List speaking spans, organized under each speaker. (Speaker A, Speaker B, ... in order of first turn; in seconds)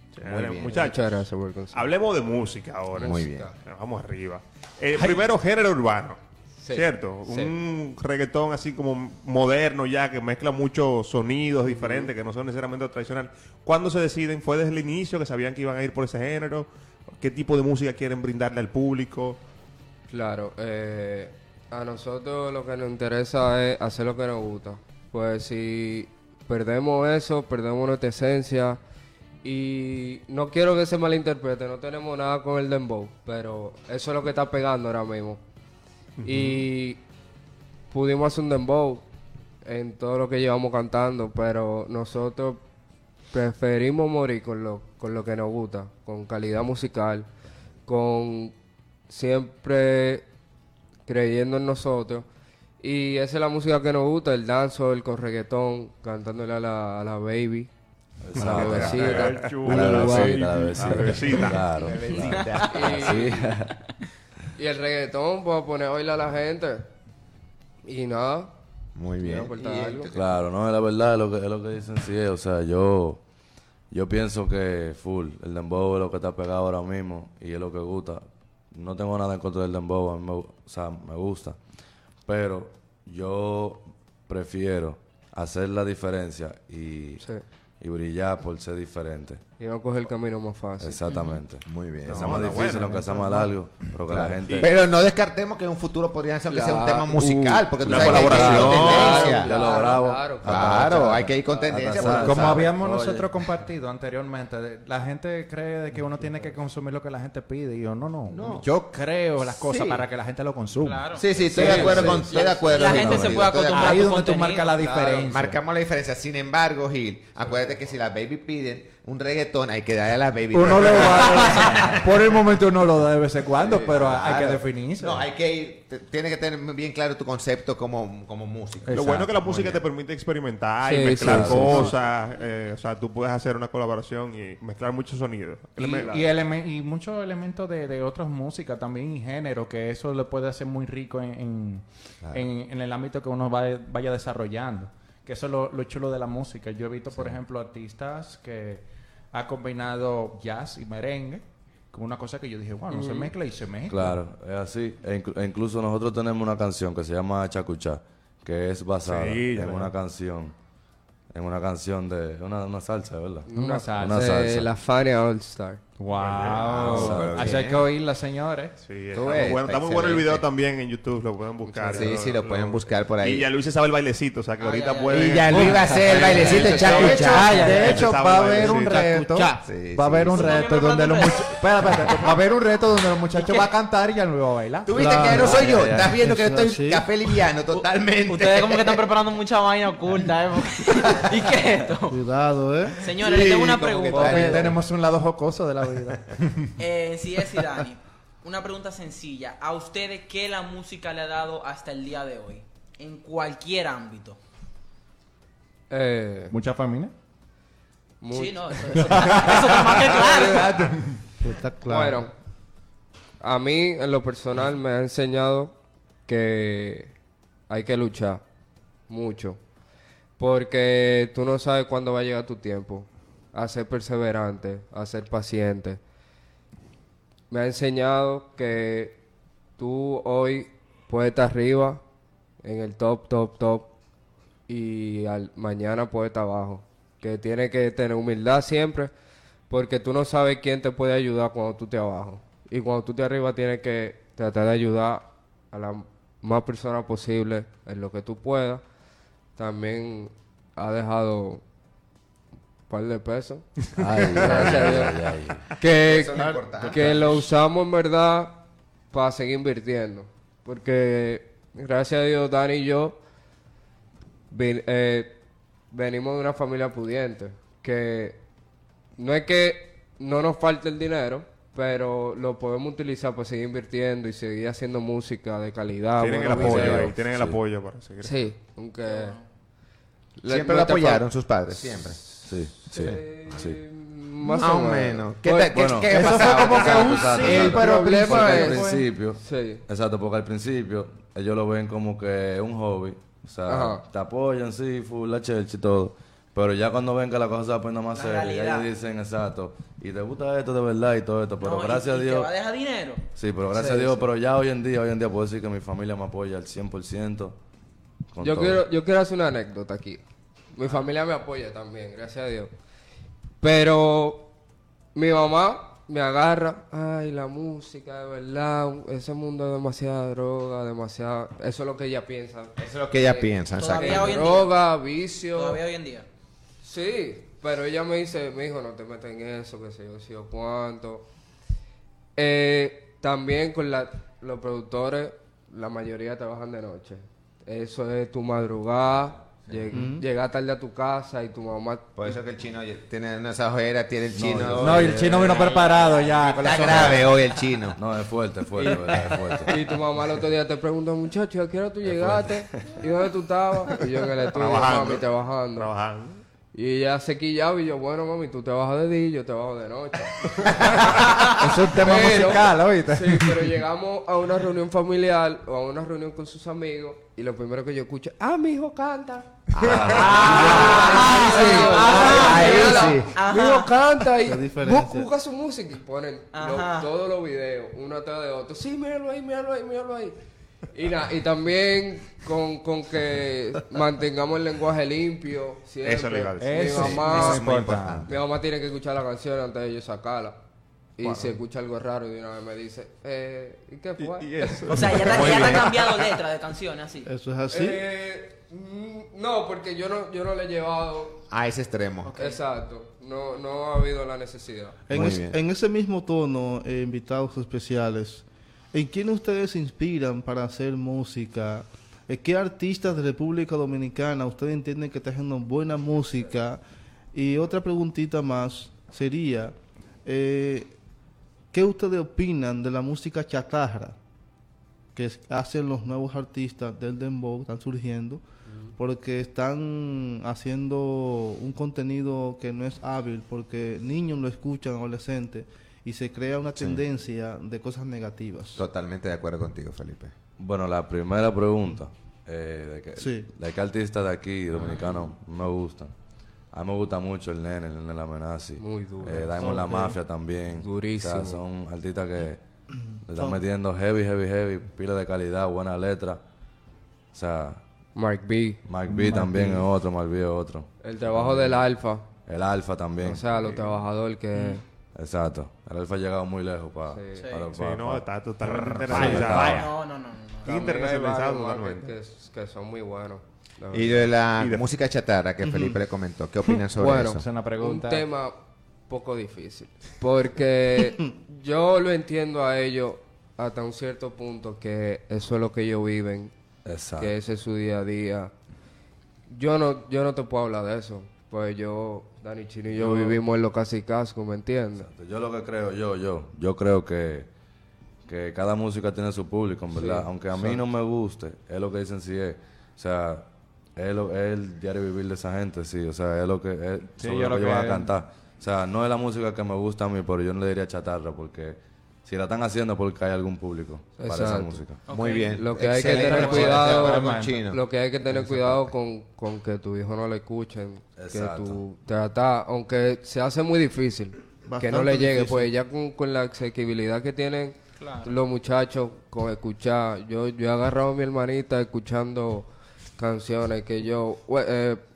Speaker A: 0.2-1.2, 1.7-6.2, 6.7-16.7, 17.2-19.4, 36.2-36.6, 58.4-61.8, 92.1-93.0, 97.8-99.3, 128.9-136.2, 159.1-159.9, 166.1-166.9, 168.8-179.0, 276.2-278.4, 354.5-356.4, 386.0-386.9, 391.2-391.6, 394.2-396.4, 463.6-463.9, 467.7-469.9, 470.6-472.1, 474.6-474.8
Speaker B: 0.2-0.8, 3.0-3.5, 61.8-63.0, 69.0-70.4, 91.6-92.6, 93.9-99.5, 100.4-102.7, 108.3-108.7, 109.6-110.0, 111.2-114.0, 115.3-122.0, 123.8-129.8, 166.4-167.8, 169.1-170.4, 171.9-173.5, 175.1-178.0, 179.6-180.7, 184.9-189.1, 193.1-194.8, 255.8-257.2, 280.4-282.4, 282.9-283.6, 284.5-287.4, 322.8-324.4, 342.2-348.0, 369.8-373.3, 386.9-388.4, 401.5-402.3, 405.1-405.6, 436.8-437.0, 438.8-440.3, 473.9-477.5, 515.1-517.8
Speaker C: 0.6-1.9, 2.9-3.5, 6.6-7.5, 11.7-12.1, 20.1-28.8, 29.4-35.4, 36.2-37.0, 37.9-39.0, 39.6-42.6, 43.3-47.3, 47.9-48.5, 49.1-50.3, 51.1-52.3, 52.8-57.7, 58.4-61.4, 62.6-63.5, 64.6-66.9, 67.8-68.5, 69.2-70.1, 89.6-91.0, 96.5-101.0, 111.5-112.2, 114.8-115.3, 130.8-131.9, 135.8-136.2, 152.9-153.3, 163.5-165.8, 169.2-169.6, 171.7-172.2, 205.9-206.6, 208.2-209.5, 210.1-210.6, 211.8-212.3, 213.4-215.7, 216.3-217.2, 217.7-218.4, 219.1-219.6, 220.4-226.0, 227.5-229.2, 229.8-232.0, 232.6-233.9, 234.7-239.1, 239.7-248.8, 249.6-251.6, 252.9-263.2, 264.5-265.4, 265.9-268.4, 269.2-277.1, 278.2-279.4, 280.4-286.3, 287.4-289.8, 293.7-294.0, 308.4-312.7, 313.6-314.5, 315.1-325.8, 326.8-331.3, 332.4-342.4, 348.8-349.1, 349.6-355.9, 356.7-380.4, 380.9-387.7, 388.3-390.6, 391.2-395.2, 397.7-401.4, 402.4-405.0, 428.7-428.9, 448.8-449.8, 450.8-451.6, 458.2-458.8, 461.0-462.2, 463.2-464.8, 467.1-467.5, 470.6-474.3, 477.0-478.6, 479.1-486.5, 487.2-488.5, 489.5-495.1, 499.9-500.3, 514.2-514.8, 515.5-535.0
Speaker D: 58.2-63.8, 70.1-73.2, 73.9-81.6, 82.2-87.2, 87.8-89.4, 90.8-94.7, 97.8-103.3, 111.5-112.4, 113.0-113.4, 131.2-131.9, 153.9-160.6, 161.3-164.7, 166.9-167.6, 185.6-185.9, 254.0-255.7, 276.5-277.6, 282.5-283.8, 285.7-302.5, 303.4-307.6, 308.3-308.8, 339.5-340.0, 344.3-345.7, 348.0-349.8, 352.0-352.9, 369.8-370.8, 440.6-446.1, 446.7-456.4, 457.3-457.8, 458.9-461.9, 462.5-463.4, 465.1-468.3, 469.1-469.9, 486.9-487.3, 493.1-493.3, 495.0-497.5, 498.3-515.0, 518.3-518.9, 521.2-521.8
Speaker E: 62.0-63.0, 91.1-91.4, 110.8-114.7, 174.6-175.3, 180.2-182.0, 187.7-192.2, 193.0-194.7, 196.8-204.4, 208.3-210.9, 279.1-279.4, 298.1-298.9, 301.6-304.2, 323.7-324.7, 325.5-326.3, 370.4-373.9, 376.5-377.1, 394.9-397.3, 402.2-402.6, 467.3-467.7, 469.4-470.8, 515.1-515.6, 516.3-516.8, 528.0-528.3
Speaker F: 92.8-93.5, 102.0-112.1, 113.5-115.6, 120.5-125.3, 128.8-129.7, 131.2-131.9, 135.8-154.2, 163.5-164.3, 166.0-168.8, 175.5-185.6, 193.3-196.7, 206.5-207.1, 209.2-209.5, 210.2-211.4, 286.1-289.1, 344.8-347.4, 361.6-363.8, 386.6-388.3, 459.1-459.9, 468.6-469.9, 476.7-478.2, 507.2-508.1, 516.0-517.6
Speaker G: 177.5-177.9, 178.9-179.6, 185.0-187.3, 192.1-193.1, 211.4-212.3, 256.4-256.6, 339.9-340.2, 374.4-375.3, 397.2-398.0, 405.1-416.8, 417.3-420.9, 421.7-424.2, 425.1-428.4, 429.0-438.8, 443.2-443.5, 444.8-445.3, 449.6-450.2, 453.1-453.6, 475.6-476.0, 524.7-525.7